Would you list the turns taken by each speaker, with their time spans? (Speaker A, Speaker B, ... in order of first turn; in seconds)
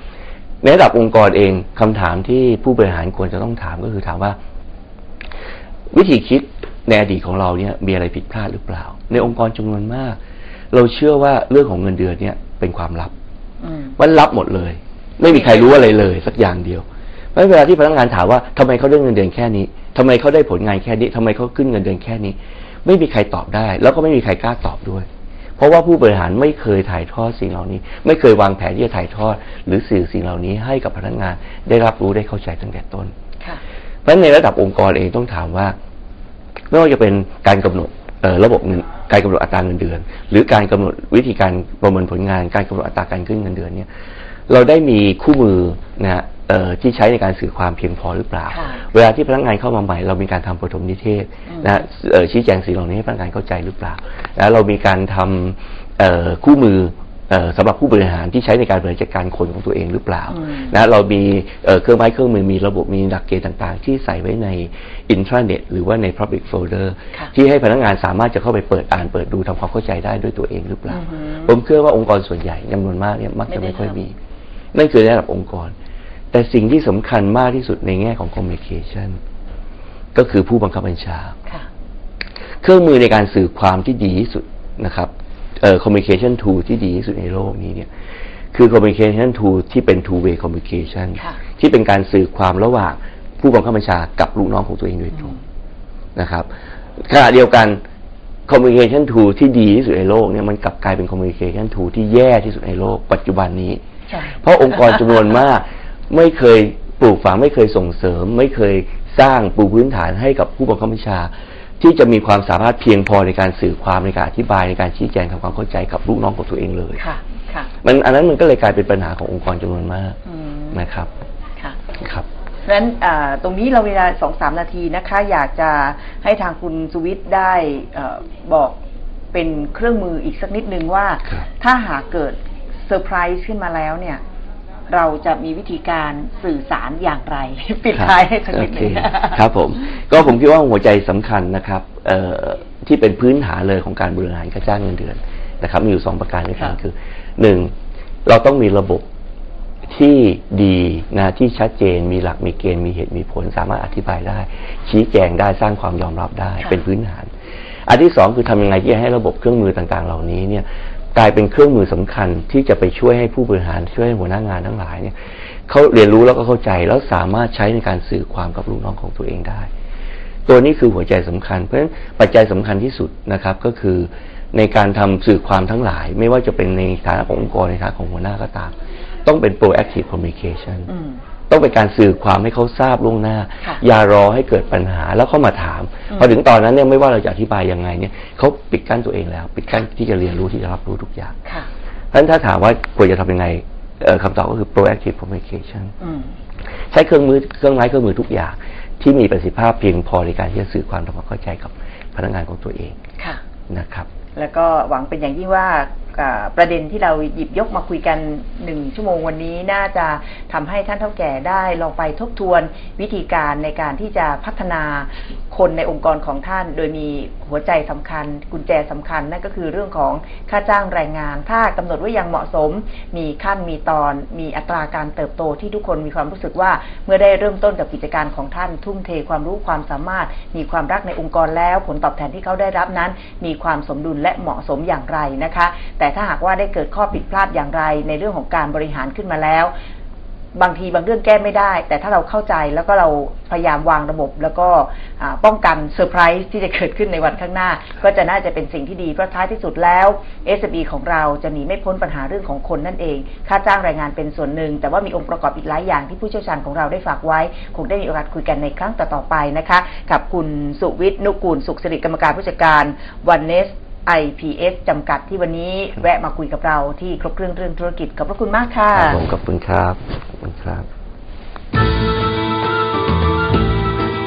Speaker A: 0.6-4.4, 5.9-10.2, 10.7-13.1, 14.0-25.1, 25.6-33.1, 34.0-35.8, 36.7-43.9, 44.5-74.2, 74.7-75.7, 76.3-79.2, 80.1-81.3, 82.6-87.9, 88.5-95.3, 96.2-97.8, 98.5-103.8, 104.4-117.0, 117.8-120.2, 120.7-121.1, 122.0-122.2, 137.9-147.7, 148.2-149.1, 149.9-157.3, 157.8-165.1, 165.7-169.7, 170.5-178.7, 179.2-180.9, 181.5-191.3, 192.1-195.9, 196.9-203.0, 203.7-204.1, 268.9-270.9
Speaker B: 13.6-13.9, 15.3-15.9, 48.5-48.8, 51.5-51.8, 60.3-60.7, 70.9-71.5, 73.5-74.0, 95.2-95.4, 104.1-104.4, 117.0-117.7, 120.2-120.8, 122.6-128.8, 129.3-134.2, 134.9-139.4, 180.9-181.2, 196.0-196.3, 204.3-239.7, 240.5-269.2